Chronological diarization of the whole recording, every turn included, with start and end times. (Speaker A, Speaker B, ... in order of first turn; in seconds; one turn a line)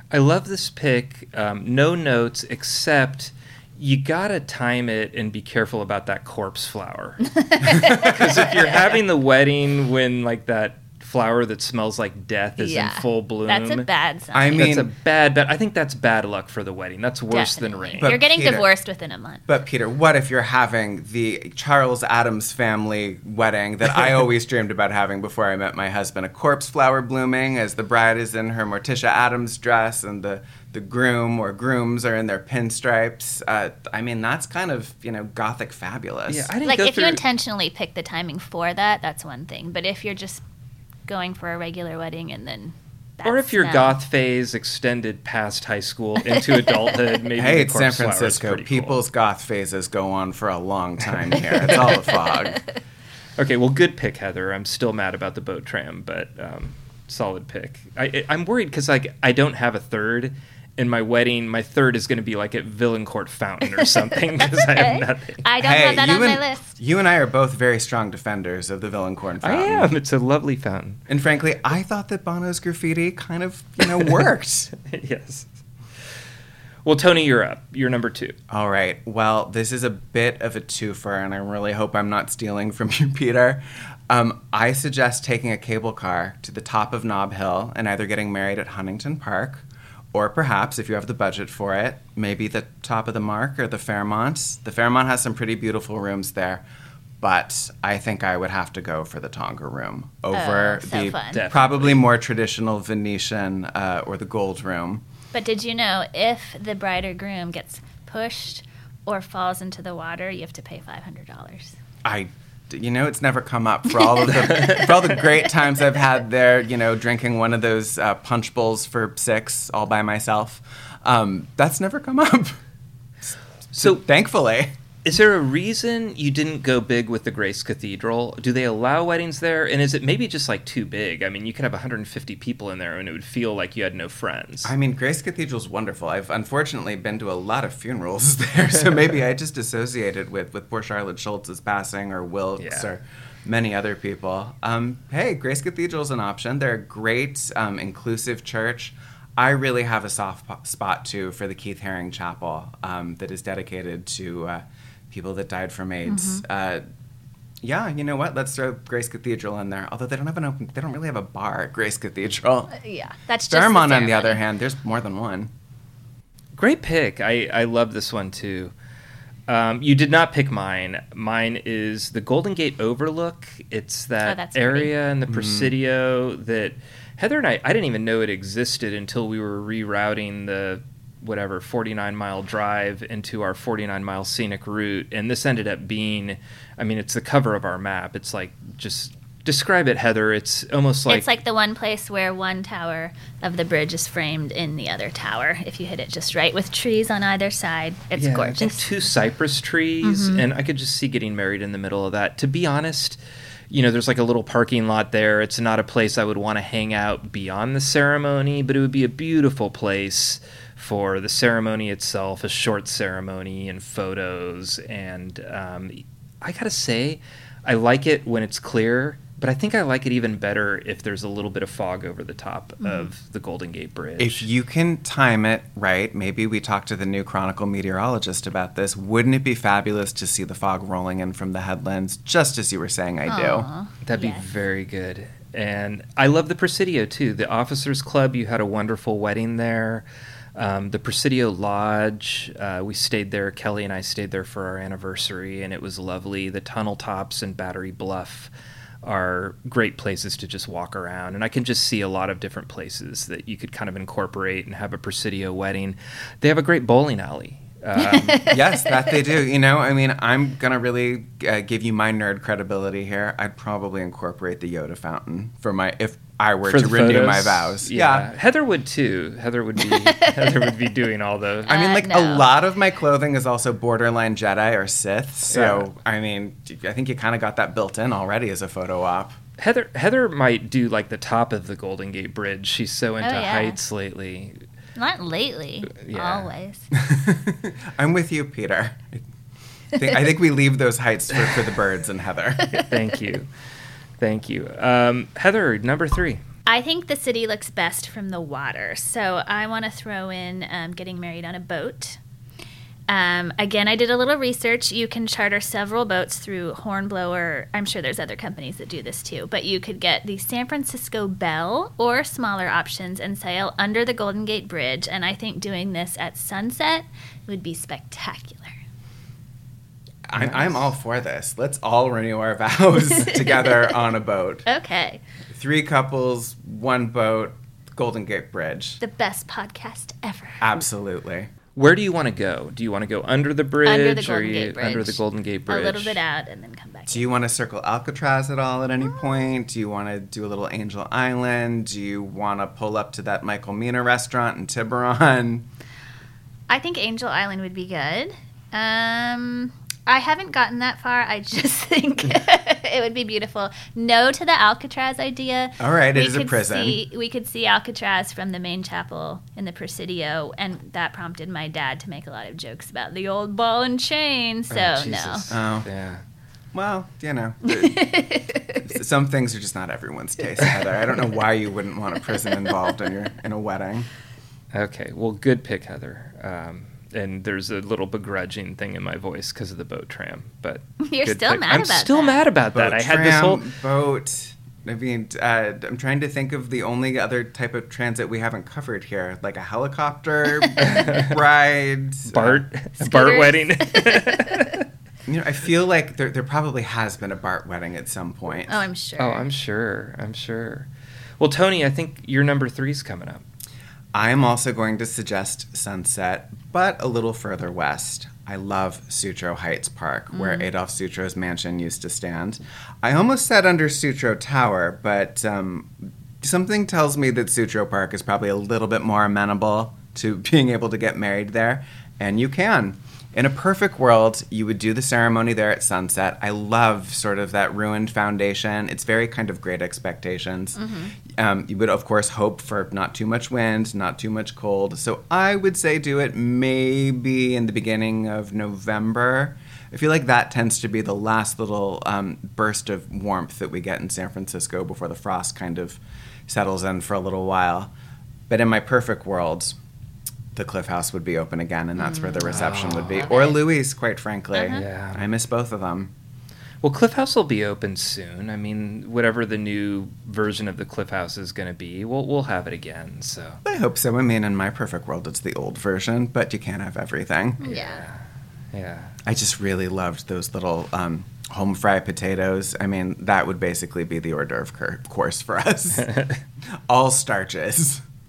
Speaker A: 0.1-13.9
Speaker B: 7.2-8.8
Speaker C: 7.9-8.3
Speaker B: 12.6-14.7
Speaker C: 14.3-14.9
Speaker A: 14.6-18.1
Speaker B: 17.3-19.4
Speaker C: 18.0-18.7
Speaker C: 19.5-36.5
Speaker A: 36.3-37.2
Speaker B: 36.6-40.4
Speaker B: 41.1-44.0
Speaker A: 43.2-48.9
Speaker B: 46.4-46.9
Speaker C: 47.4-52.6
Speaker A: 51.3-52.0
Speaker A: 53.4-65.4
Speaker B: 63.8-66.7
Speaker C: 65.6-69.9
Speaker A: 69.4-71.0
Speaker C: 71.1-74.7
Speaker A: 74.8-75.5
Speaker A: 76.8-78.3
Speaker C: 78.5-96.6
Speaker C: 97.2-105.0
Speaker B: 100.3-101.4
Speaker A: 101.3-102.1
Speaker B: 105.3-111.8
Speaker C: 112.0-122.6
Speaker A: 114.4-114.9
Speaker C: 123.7-124.8
Speaker A: 123.7-124.0
Speaker A: 125.0-134.7
Speaker C: 134.6-156.8
Speaker A: 142.6-142.9
Speaker B: 156.0-156.4
Speaker C: 157.6-162.7
Speaker B: 162.7-164.4
Speaker C: 163.5-165.5
Speaker A: 166.6-168.7
Speaker A: 169.5-191.3
Speaker B: 174.2-174.9
Speaker C: 175.3-175.7
Speaker B: 191.1-198.8
Speaker A: 198.2-203.2
Speaker B: 200.0-200.4
Speaker A: 203.7-224.5
Speaker B: 222.8-223.1
Speaker C: 224.2-233.7
Speaker B: 233.3-234.4
Speaker A: 234.0-240.0
Speaker A: 240.6-248.5
Speaker A: 249.0-258.4
Speaker B: 258.0-258.6
Speaker C: 258.4-268.3
Speaker A: 266.7-271.8
Speaker B: 269.8-270.8
Speaker B: 271.7-272.5
Speaker C: 271.7-279.4
Speaker A: 275.5-275.9
Speaker A: 279.6-284.6
Speaker B: 283.2-283.8
Speaker B: 284.9-286.9
Speaker A: 285.9-286.5
Speaker C: 286.9-289.3
Speaker C: 289.9-292.7
Speaker A: 292.7-293.5
Speaker A: 294.2-296.4
Speaker B: 296.7-302.2
Speaker B: 303.1-318.8
Speaker C: 320.3-324.6
Speaker A: 320.4-320.7
Speaker B: 323.0-323.9
Speaker B: 324.6-325.2
Speaker C: 325.5-329.0
Speaker B: 329.0-330.7
Speaker C: 330.6-331.5
Speaker A: 331.8-336.2
Speaker B: 333.8-337.3
Speaker C: 337.1-345.7
Speaker B: 346.7-365.5
Speaker C: 355.8-357.0
Speaker A: 364.7-366.2
Speaker C: 365.5-365.9
Speaker C: 366.7-368.1
Speaker B: 367.6-368.9
Speaker C: 368.8-374.1
Speaker A: 374.7-383.6
Speaker B: 381.0-382.4
Speaker C: 382.7-392.6
Speaker A: 390.8-391.4
Speaker A: 392.3-394.9
Speaker B: 392.9-394.7
Speaker C: 395.3-398.9
Speaker B: 398.7-399.5
Speaker A: 399.2-400.9
Speaker A: 401.4-403.4
Speaker C: 404.1-447.9
Speaker B: 410.3-410.7
Speaker B: 430.8-431.1
Speaker C: 448.5-449.8
Speaker C: 450.5-456.1
Speaker B: 452.0-452.4
Speaker A: 452.4-453.3
Speaker B: 453.1-453.6
Speaker B: 454.5-454.8
Speaker A: 454.7-455.2
Speaker A: 456.8-463.6
Speaker C: 463.6-467.6
Speaker B: 467.6-468.0
Speaker A: 467.6-468.2
Speaker A: 468.7-469.1
Speaker C: 469.2-476.1
Speaker A: 476.0-476.4
Speaker C: 476.9-478.0